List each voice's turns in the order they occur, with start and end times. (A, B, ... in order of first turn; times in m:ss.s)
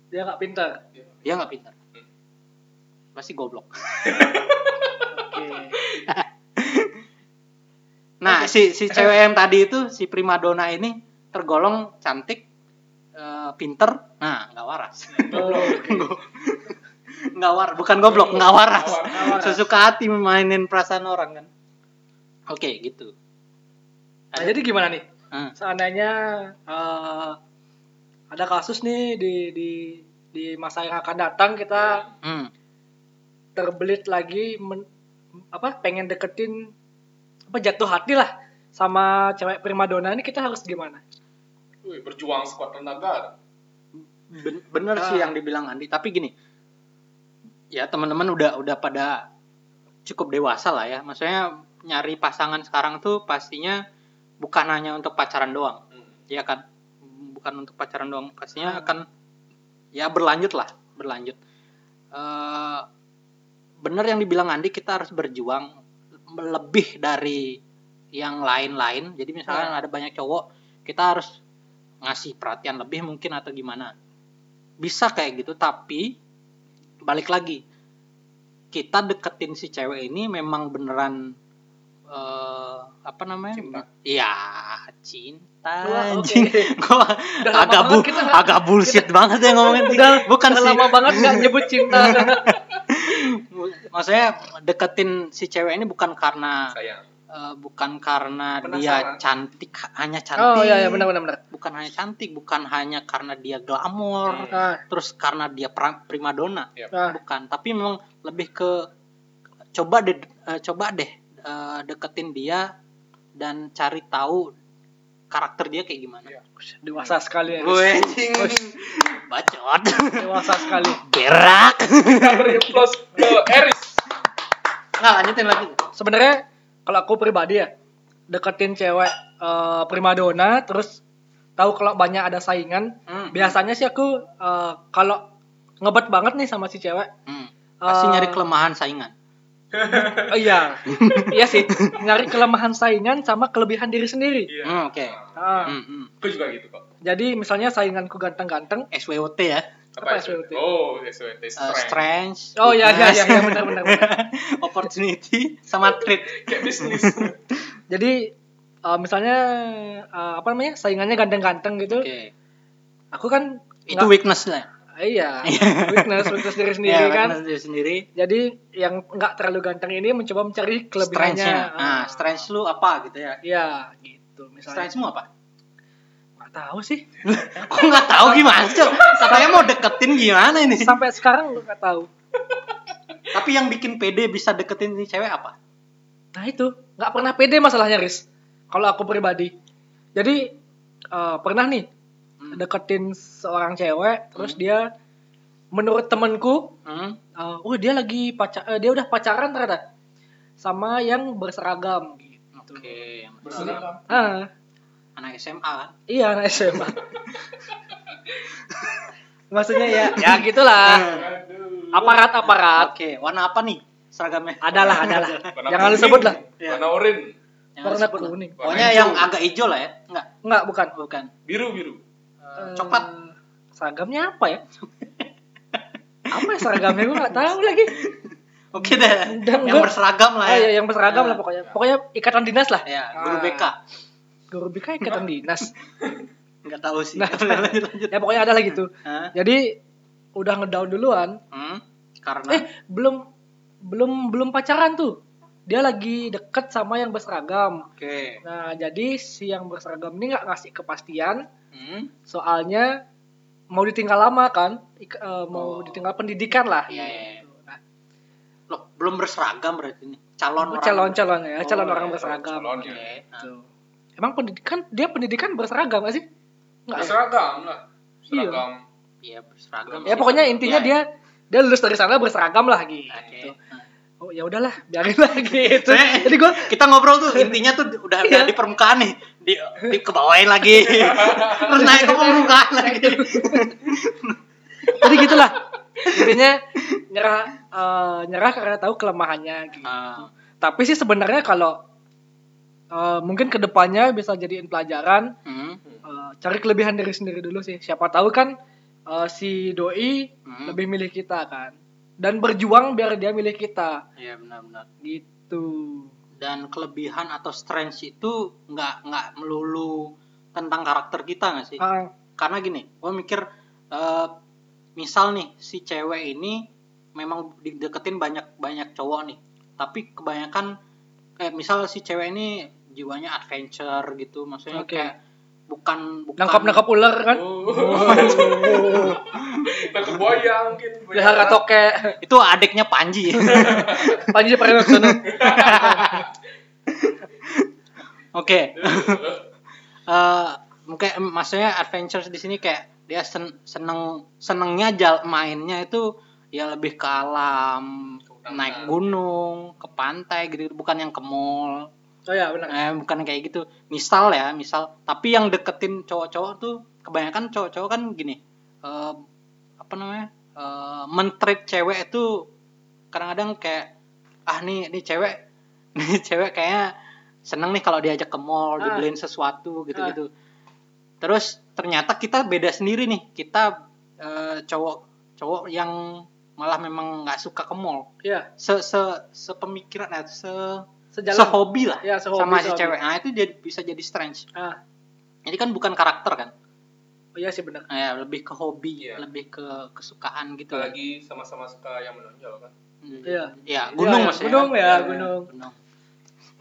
0:00.1-0:00.8 A
0:01.2-0:01.7 B
0:03.1-0:04.4 B
0:04.0-0:05.1 C
0:05.1-0:05.8 A
0:05.8-0:06.0 C
0:06.1-0:07.0 B
0:08.2-0:12.4 B
0:13.2-0:21.5 B
0:15.2-0:16.0 C
0:15.3-0:16.0 A
0:18.0-0:19.5 C
0:19.1-0:19.6 A
0:22.5-0:23.1 B
0:24.3-0:24.6 B
0:24.4-0:25.0 A
0:25.6-0:27.4 A
0:28.3-0:32.0 A
0:31.7-0:32.1 C
0:32.2-0:32.5 B
0:33.6-0:34.8 A
0:35.5-0:36.7 A
0:37.5-0:41.0 A
0:41.8-0:43.3 C
0:44.0-0:46.3 B
0:45.0-0:45.3 A
0:47.7-0:49.2 B
0:50.0-0:53.8 B
0:54.4-0:59.1 B
0:59.9-1:01.4 B
1:02.1-1:02.9 B
1:03.8-1:05.7 B
1:06.3-1:07.6 B
1:08.2-1:11.4 B
1:12.0-1:13.9 B
1:14.8-1:16.2 B
1:17.0-1:17.6 B
1:18.7-1:21.3 B
1:22.1-1:36.7 B
1:23.6-1:23.8 C
1:25.8-1:26.7 A
1:27.4-1:32.5 A
1:36.7-1:37.0 C
1:37.3-1:48.9 B
1:38.6-1:39.2 C
1:40.4-1:41.4 A
1:44.2-1:44.6 C
1:44.5-1:44.8 A
1:46.9-1:47.2 A
1:49.7-1:52.7 B
1:53.4-1:54.5 B
1:55.3-1:56.3 B
1:56.6-1:58.6 A
1:57.5-2:03.6 B
2:00.2-2:01.0 A
2:02.1-2:03.9 C
2:05.0-2:05.8 B
2:05.9-2:07.7 A
2:08.3-2:11.0 A
2:11.6-2:15.2 A
2:13.1-2:13.6 B
2:15.8-2:17.1 A
2:17.2-2:19.1 B
2:17.8-2:18.4 A
2:19.7-2:20.6 C
2:19.9-2:24.5 A
2:20.9-2:22.1 B
2:24.5-2:26.8 C
2:24.6-2:26.1 B
2:25.4-2:25.8 A
2:27.0-2:28.9 A
2:28.9-2:29.6 B
2:30.0-2:32.0 C
2:30.0-2:30.6 A
2:31.6-2:37.3 B
2:32.6-2:34.2 A
2:35.8-2:37.4 C
2:37.9-2:38.3 A
2:38.8-2:42.1 A
2:41.9-2:42.3 B
2:43.1-2:44.1 A
2:43.9-2:44.7 B
2:45.0-2:47.4 A
2:45.4-2:48.1 B
2:48.2-2:52.4 A
2:51.0-2:53.4 B
2:53.4-2:54.9 A
2:54.7-2:55.3 B
2:56.4-2:57.0 A
2:57.2-3:01.0 B
2:58.4-2:59.6 C
2:59.2-2:59.6 A
3:00.7-3:02.1 A
3:03.3-3:05.6 B
3:06.3-3:09.5 A
3:10.2-3:10.5 A
3:11.1-3:11.9 A
3:12.5-3:14.9 A
3:15.7-3:16.8 A
3:16.8-3:17.2 B
3:17.4-3:19.8 A
3:20.6-3:22.9 A
3:22.5-3:23.9 B
3:23.4-3:24.1 C
3:23.6-3:24.5 A
3:25.2-3:25.9 B
3:26.1-3:27.0 A
3:29.5-3:31.2 A
3:29.8-3:31.3 B
3:30.9-3:32.2 C
3:31.9-3:32.9 A
3:32.4-3:36.8 B
3:34.6-3:36.4 A
3:35.5-3:37.3 C
3:37.8-3:40.3 B
3:37.8-3:39.2 A
3:38.6-3:39.2 C
3:40.4-3:40.9 A
3:40.9-3:41.3 B
3:41.4-3:42.0 C
3:42.4-3:43.1 B
3:42.6-3:44.6 A
3:45.0-3:45.8 B
3:46.3-3:47.9 A
3:46.4-3:51.4 B
3:48.8-3:49.9 A
3:50.4-3:53.7 A
3:52.8-3:53.8 B
3:54.5-3:55.7 A
3:56.6-3:59.3 B
3:57.2-3:59.8 A
4:00.4-4:01.4 A
4:01.5-4:02.6 B
4:02.5-4:03.2 A
4:03.8-4:07.9 A
4:07.9-4:08.4 B
4:08.4-4:11.4 A
4:11.7-4:12.1 B
4:12.3-4:13.0 A
4:13.7-4:17.8 A
4:15.6-4:16.0 C
4:16.9-4:17.4 B
4:18.7-4:23.5 B
4:20.6-4:23.7 A
4:22.0-4:23.1 C
4:24.2-4:26.2 A
4:26.9-4:27.2 A
4:26.9-4:28.8 C
4:28.3-4:28.6 A
4:29.2-4:31.0 B
4:29.9-4:30.8 C
4:30.0-4:33.5 A
4:33.1-4:33.8 B
4:34.2-4:36.7 A
4:35.6-4:44.4 B
4:38.2-4:38.5 A
4:41.4-4:43.7 A
4:44.9-4:49.9 A
4:45.0-4:45.3 B
4:49.8-4:50.3 B
4:50.6-4:51.8 A
4:52.9-4:55.3 A
4:55.4-4:55.8 B
4:56.0-4:58.5 A
4:59.1-5:04.0 A
5:00.4-5:00.8 B
5:04.2-5:04.9 B
5:05.0-5:06.1 A
5:06.4-5:11.8 B
5:11.8-5:12.1 A
5:12.4-5:14.3 B
5:15.0-5:20.7 B
5:21.4-5:25.2 B
5:24.7-5:25.1 A
5:25.7-5:26.8 B
5:26.4-5:29.2 A
5:27.3-5:31.7 C
5:27.9-5:30.2 B
5:31.1-5:32.2 A
5:32.2-5:36.3 B
5:33.5-5:34.2 C
5:33.5-5:35.4 A
5:35.2-5:36.3 C
5:36.9-5:37.7 B
5:38.3-5:39.2 B
5:38.7-5:39.4 C
5:40.1-5:51.9 B
5:48.3-5:49.0 C
5:52.3-5:52.8 A
5:52.7-5:59.2 B
5:59.8-6:02.4 B
6:03.1-6:03.9 B
6:04.5-6:05.4 B
6:06.0-6:06.9 B
6:07.4-6:10.3 B
6:08.8-6:09.0 A
6:11.2-6:24.4 B
6:21.1-6:22.9 A
6:25.4-6:26.5 B
6:27.4-6:27.9 A
6:27.9-6:30.9 B
6:29.0-6:29.2 C
6:30.7-6:32.7 C
6:33.0-6:35.8 B
6:33.2-6:35.5 A